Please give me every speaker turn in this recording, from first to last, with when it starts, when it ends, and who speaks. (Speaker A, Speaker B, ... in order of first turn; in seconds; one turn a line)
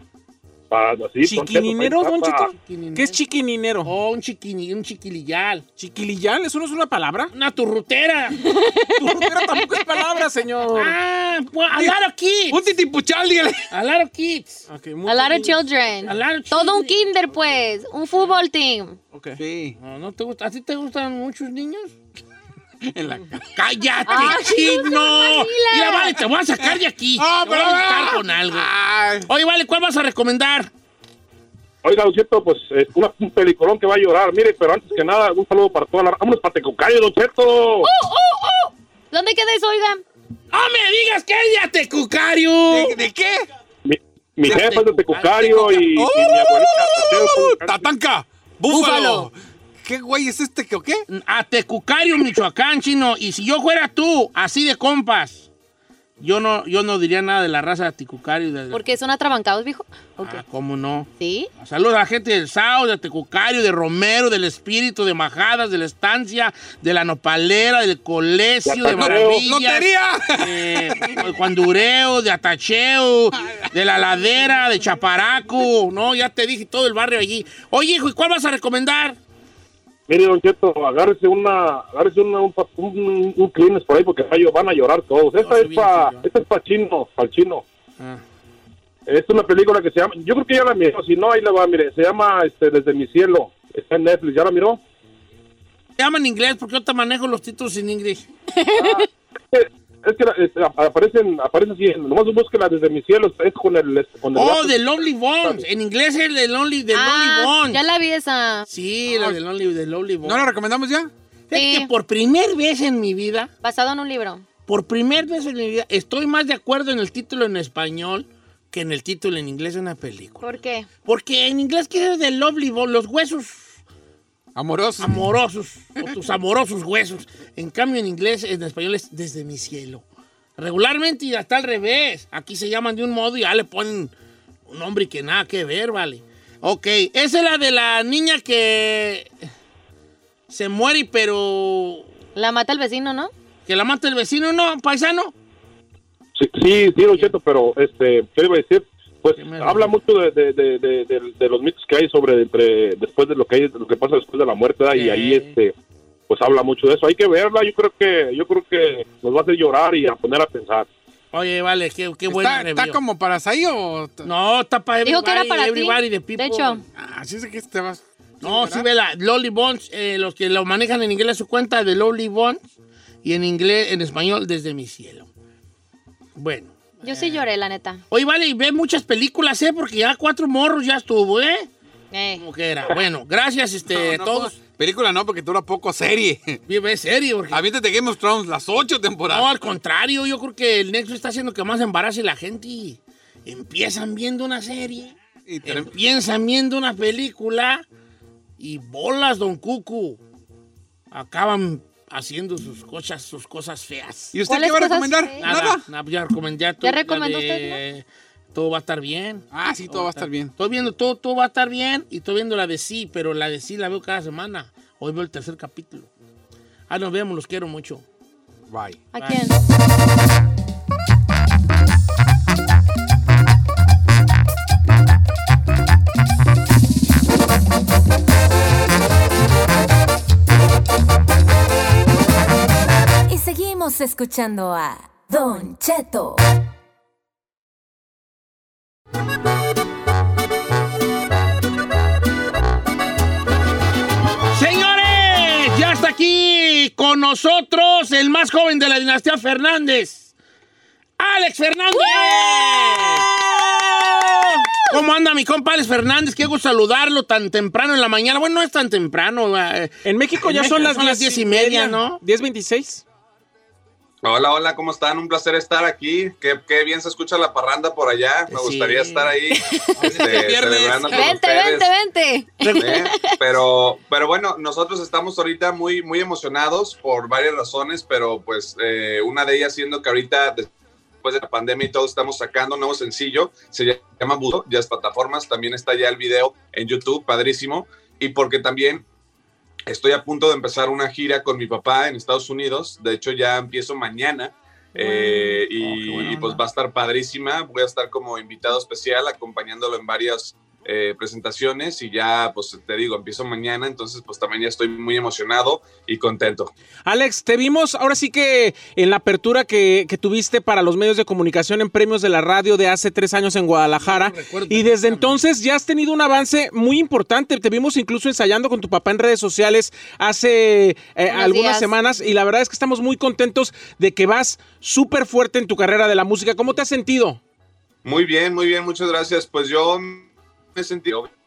Speaker A: 0.7-2.5
Speaker B: 1.2-3.9
Speaker C: 2.5-3.2
Speaker C: 3.8-5.6
Speaker B: 5.8-7.3
Speaker C: 7.3-8.5
Speaker D: 8.4-9.4
Speaker B: 9.0-10.9
Speaker C: 10.7-12.6
Speaker E: 12.5-13.7
Speaker C: 13.7-14.6
Speaker B: 14.7-15.6
Speaker D: 15.1-19.0
Speaker C: 16.1-17.1
Speaker B: 19.1-19.4
Speaker E: 19.4-19.8
Speaker C: 19.8-21.9
Speaker E: 22.8-23.5
Speaker C: 23.6-28.7
Speaker D: 24.1-26.2
Speaker E: 26.6-29.3
Speaker C: 29.3-30.7
Speaker A: 31.8-37.9
Speaker D: 37.8-40.0
Speaker C: 40.5-43.0
Speaker E: 42.7-43.5
Speaker A: 43.8-47.8
Speaker C: 44.4-45.9
Speaker E: 45.9-49.3
Speaker D: 48.7-49.3
Speaker E: 49.8-51.0
Speaker C: 51.1-55.5
Speaker C: 56.2-58.8
Speaker D: 58.7-60.4
Speaker C: 60.2-79.2
Speaker D: 61.2-61.5
Speaker A: 68.7-69.4
Speaker E: 68.9-71.2
Speaker E: 73.3-73.7
Speaker A: 80.1-87.6
Speaker C: 85.4-86.2
Speaker A: 89.1-94.8
Speaker C: 96.0-98.2
Speaker D: 98.5-99.1
Speaker A: 98.8-105.6
Speaker C: 104.3-107.8
Speaker D: 106.9-108.7
Speaker C: 108.7-110.5
Speaker E: 109.1-109.4
Speaker E: 110.2-111.1
Speaker C: 111.5-113.5
Speaker D: 111.5-111.9
Speaker D: 113.6-114.4
Speaker C: 114.7-120.5
Speaker D: 120.4-120.9
Speaker C: 121.0-123.8
Speaker E: 124.5-125.3
Speaker C: 125.0-130.0
Speaker C: 130.6-134.1
Speaker C: 134.7-139.3
Speaker C: 140.5-142.1
Speaker D: 142.3-143.3
Speaker C: 143.7-145.3
Speaker A: 146.4-155.7
Speaker C: 149.3-149.9
Speaker C: 154.9-155.5
Speaker A: 156.3-160.9
Speaker C: 161.3-163.0
Speaker E: 162.3-164.3
Speaker C: 164.2-166.8
Speaker D: 165.0-166.8
Speaker E: 166.9-168.9
Speaker C: 168.4-172.6
Speaker C: 173.2-175.3
Speaker C: 176.3-177.5
Speaker D: 177.0-178.0
Speaker C: 178.1-181.7
Speaker D: 182.1-182.4
Speaker C: 182.3-184.6
Speaker E: 183.9-186.6
Speaker C: 186.7-187.6
Speaker E: 187.5-189.5
Speaker C: 189.3-197.8
Speaker E: 195.5-195.9
Speaker C: 198.6-200.2
Speaker C: 201.1-204.3
Speaker E: 204.3-205.8
Speaker D: 204.5-205.5
Speaker C: 205.4-216.1
Speaker D: 206.8-207.8
Speaker E: 209.5-210.5
Speaker C: 216.9-218.0
Speaker E: 218.7-219.0
Speaker D: 219.1-219.5
Speaker C: 219.2-219.4
Speaker F: 233.3-236.4
Speaker C: 244.5-250.3
Speaker C: 251.2-253.3
Speaker C: 254.2-262.2
Speaker B: 260.0-263.0
Speaker G: 264.2-271.9
Speaker C: 268.5-269.3
Speaker D: 269.5-269.9
Speaker E: 270.0-270.7
Speaker C: 270.0-271.3
Speaker D: 271.1-273.4
Speaker C: 272.6-273.0
Speaker G: 272.8-280.7
Speaker G: 281.2-289.0
Speaker G: 289.9-306.7
Speaker C: 295.0-296.6
Speaker B: 307.1-327.4
Speaker C: 314.0-315.4
Speaker D: 321.3-321.9
Speaker G: 328.0-331.3